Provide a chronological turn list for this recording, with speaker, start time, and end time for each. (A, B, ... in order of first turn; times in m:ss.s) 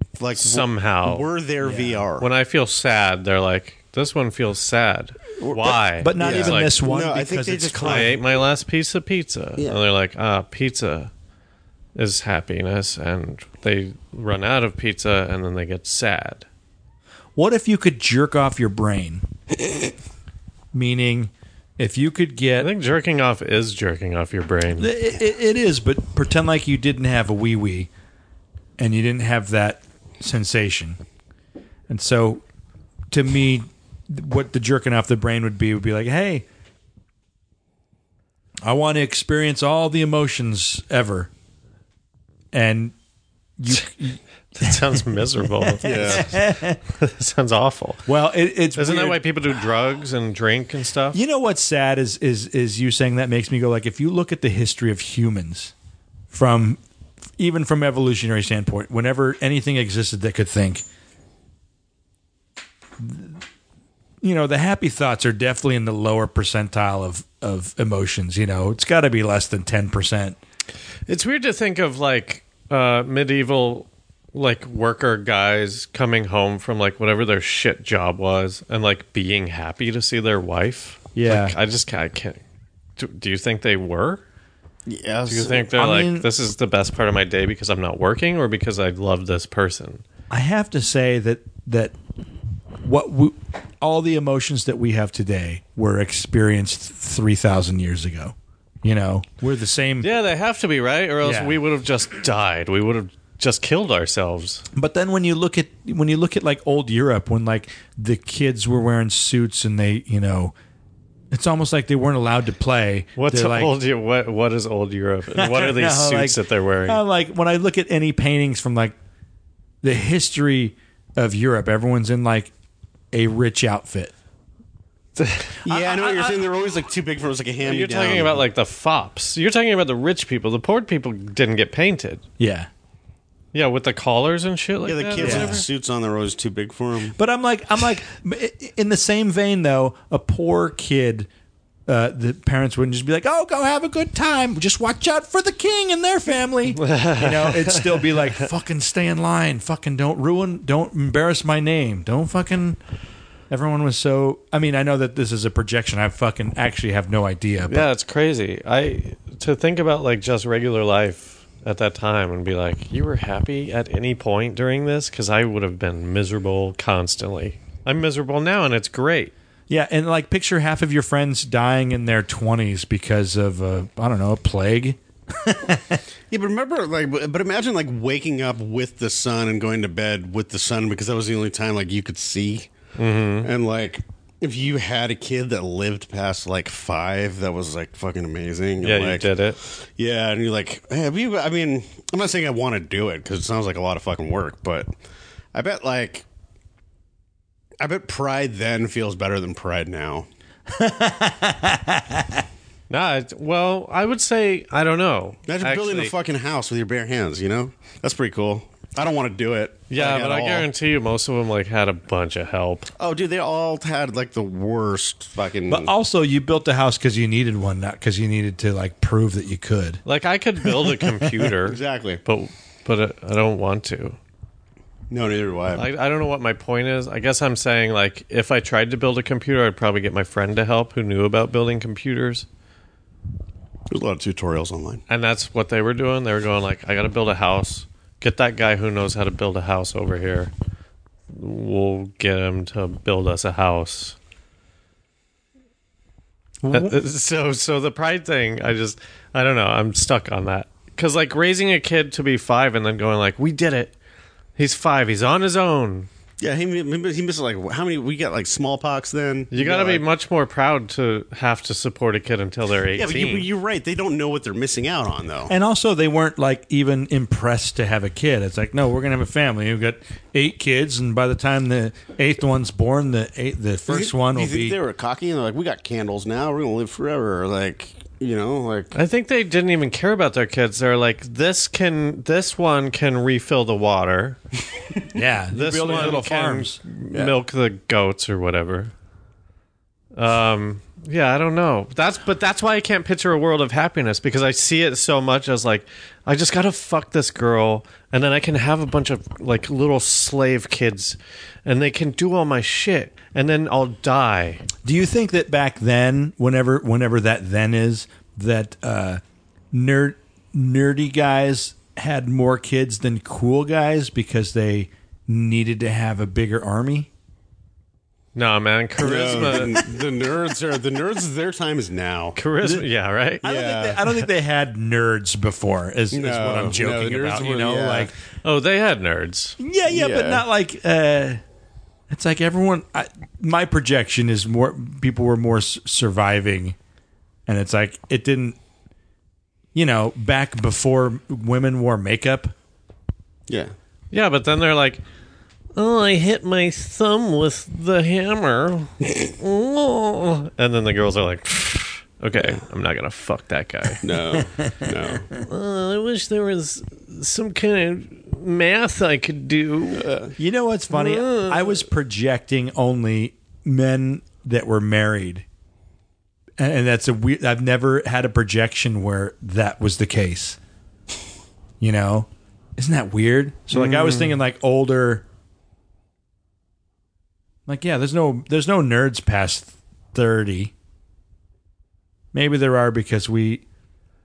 0:00.2-0:02.3 A
0:00.4-0:01.3 B
0:01.6-0:02.0 C
0:02.2-0:06.7 B
0:05.4-0:08.4 A
0:06.0-0:08.2 C
0:07.8-0:11.1 B
0:12.0-0:16.4 B
0:17.4-0:19.2 C
0:20.7-0:22.7 C
0:22.6-0:24.9 B
0:24.8-0:27.9 C
0:28.8-0:31.0 C
0:31.9-0:32.4 C
0:33.1-0:36.5 C
0:38.6-0:41.3 C
0:42.5-0:43.0 C
0:43.6-0:44.7 C
0:44.5-0:48.1 B
0:45.7-0:46.8 C
0:45.8-0:46.3 A
0:48.1-0:49.2 C
0:48.8-0:51.2 B
0:51.1-0:55.7 C
0:56.3-0:56.8 C
0:57.4-1:00.8 C
1:03.0-1:03.4 C
1:04.2-1:10.4 C
1:11.1-1:22.4 B
1:21.2-1:21.6 C
1:23.0-1:24.2 B
1:24.9-1:25.7 A
1:25.3-1:30.0 B
1:25.8-1:26.3 C
1:30.3-1:32.0 C
1:32.8-1:40.1 C
1:40.0-1:44.6 B
1:41.2-1:41.6 C
1:44.8-1:50.5 C
1:51.3-1:53.7 C
1:53.2-1:57.0 B
1:55.4-1:58.9 C
1:59.8-2:02.5 C
2:03.1-2:04.1 C
2:05.2-2:05.5 B
2:05.6-2:08.4 A
2:05.6-2:06.4 C
2:07.6-2:12.2 B
2:12.4-2:12.7 C
2:13.5-2:15.6 B
2:14.9-2:17.2 A
2:15.2-2:15.6 C
2:17.2-2:21.3 C
2:21.9-2:32.8 C
2:26.8-2:28.3 B
2:33.5-2:37.9 C
2:37.7-2:49.3 B
2:49.7-2:56.0 C
2:56.3-3:02.7 A
3:03.0-3:03.5 B
3:03.4-3:14.9 A
3:08.8-3:09.6 B
3:15.5-3:16.2 A
3:17.8-3:20.3 A
3:20.7-3:22.4 C
3:22.9-3:26.1 B
3:25.5-3:30.7 A
3:29.9-3:32.9 B
3:33.0-3:35.9 A
3:35.7-3:40.0 C
3:40.0-3:44.2 B
3:41.6-3:42.2 A
3:45.1-3:45.9 A
3:45.8-3:52.5 B
3:53.9-3:55.0 A
3:55.1-4:00.5 B
4:01.3-4:04.2 B
4:06.6-4:07.0 C
4:06.7-4:13.9 B
4:14.6-4:16.1 B
4:16.4-4:20.0 A
4:19.5-4:23.5 B
4:23.0-4:25.5 A
4:25.5-4:34.8 C
4:33.9-4:38.9 A
4:38.9-4:44.4 B
4:45.1-4:46.8 C
4:45.5-4:48.9 B
4:45.9-4:46.2 A
4:50.2-5:04.6 B
5:04.8-5:09.2 C
5:09.7-5:17.1 C
5:18.4-5:19.8 B
5:19.0-5:22.4 A
5:22.4-5:23.4 B
5:23.4-5:24.1 A
5:23.4-5:28.1 C
5:26.1-5:28.1 A
5:28.4-5:29.6 B
5:29.6-5:31.4 C
5:29.9-5:30.4 A
5:32.1-5:36.8 C
5:37.5-5:38.6 C
5:39.8-5:42.5 C
5:43.5-5:43.7 A
5:44.1-5:45.0 B
5:45.8-5:54.1 B
5:54.0-5:55.3 A
5:54.6-5:54.8 C
5:55.3-6:00.1 B
6:00.0-6:00.3 A
6:00.4-6:05.4 C
6:00.9-6:01.8 B
6:06.6-6:10.6 C
6:11.8-6:15.2 C
6:13.7-6:14.4 B
6:17.7-6:20.7 C
6:22.3-6:23.6 C